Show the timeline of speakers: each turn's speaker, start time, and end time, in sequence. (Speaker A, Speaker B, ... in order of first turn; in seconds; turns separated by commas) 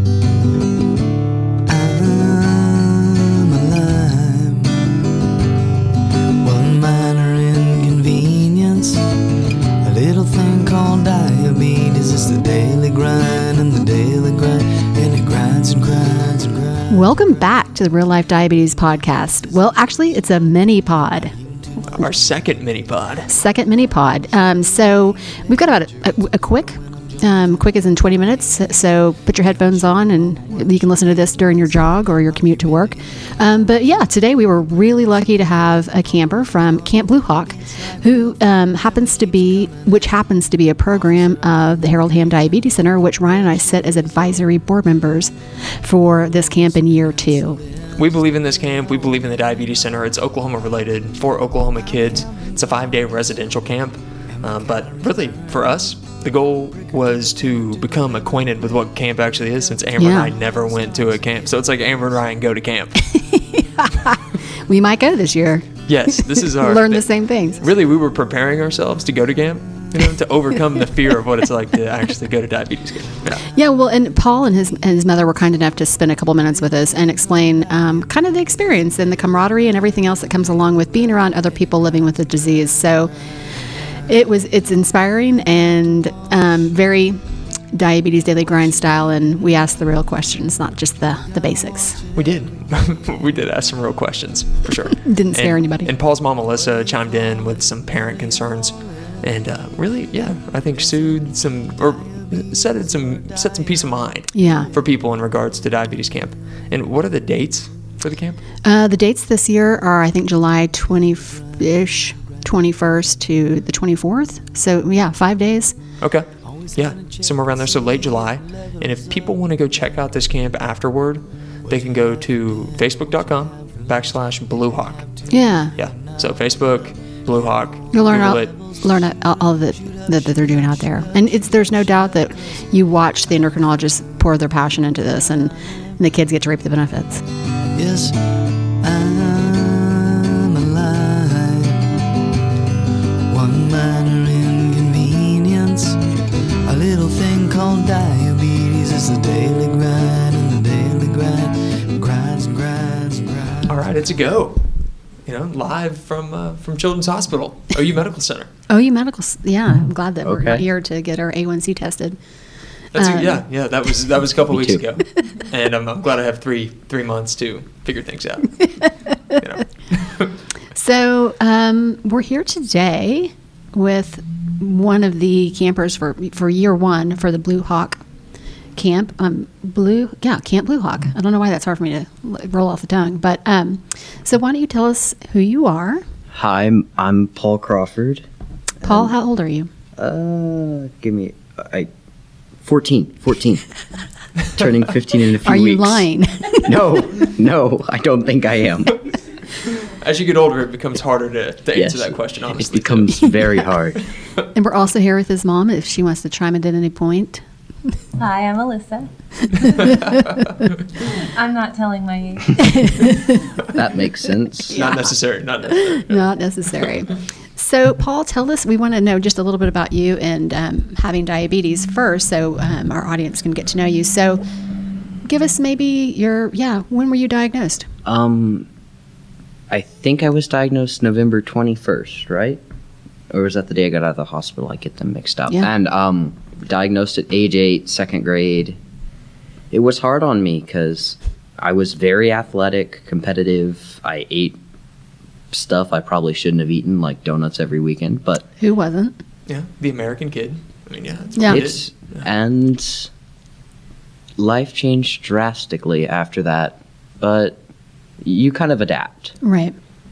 Speaker A: 1.7-5.1, Speaker A: 6.4-9.1, Speaker A: 9.8-17.0, Speaker B: 16.9-21.3, Speaker C: 21.9-23.3, Speaker B: 23.3-47.6, Speaker C: 48.0-63.0, Speaker B: 60.0-60.4, Speaker B: 63.0-67.6, Speaker C: 65.9-73.4, Speaker B: 73.5-83.1, Speaker B: 84.1-87.2, Speaker B: 87.7-92.0, Speaker C: 92.1-108.4, Speaker B: 95.0-95.9, Speaker B: 104.3-104.7, Speaker B: 108.6-115.8, Speaker C: 116.0-125.1, Speaker B: 125.3-125.7, Speaker C: 125.8-128.5, Speaker B: 127.9-137.2, Speaker A: 137.7-142.0, Speaker A: 143.3-146.0, Speaker A: 146.6-153.7, Speaker C: 153.7-154.6, Speaker C: 155.2-158.5, Speaker B: 158.7-162.2, Speaker D: 160.2-160.6, Speaker C: 162.9-170.3, Speaker B: 162.9-163.4, Speaker D: 164.5-164.8, Speaker B: 170.7-178.0, Speaker B: 178.8-186.0, Speaker D: 186.3-188.2, Speaker D: 188.8-189.1, Speaker B: 188.8-189.7, Speaker D: 190.0-191.9, Speaker D: 192.6-193.6, Speaker D: 194.5-196.1, Speaker B: 195.4-197.0, Speaker D: 196.6-199.0, Speaker C: 199.6-203.5, Speaker D: 201.7-204.0, Speaker B: 204.5-207.4, Speaker E: 208.2-210.0, Speaker B: 209.7-210.2, Speaker C: 209.9-210.4, Speaker E: 211.0-213.0, Speaker B: 212.6-213.4, Speaker D: 213.7-214.8, Speaker B: 214.7-215.1, Speaker C: 214.7-216.9, Speaker B: 215.7-224.4, Speaker B: 225.2-227.9, Speaker D: 228.1-228.7, Speaker D: 229.7-232.6, Speaker D: 233.3-238.8, Speaker D: 239.7-244.6, Speaker D: 245.5-248.4, Speaker B: 248.6-249.2, Speaker C: 249.5-252.2, Speaker B: 251.3-251.6, Speaker D: 251.5-253.1, Speaker D: 254.4-257.6, Speaker D: 258.2-259.3, Speaker B: 259.4-259.7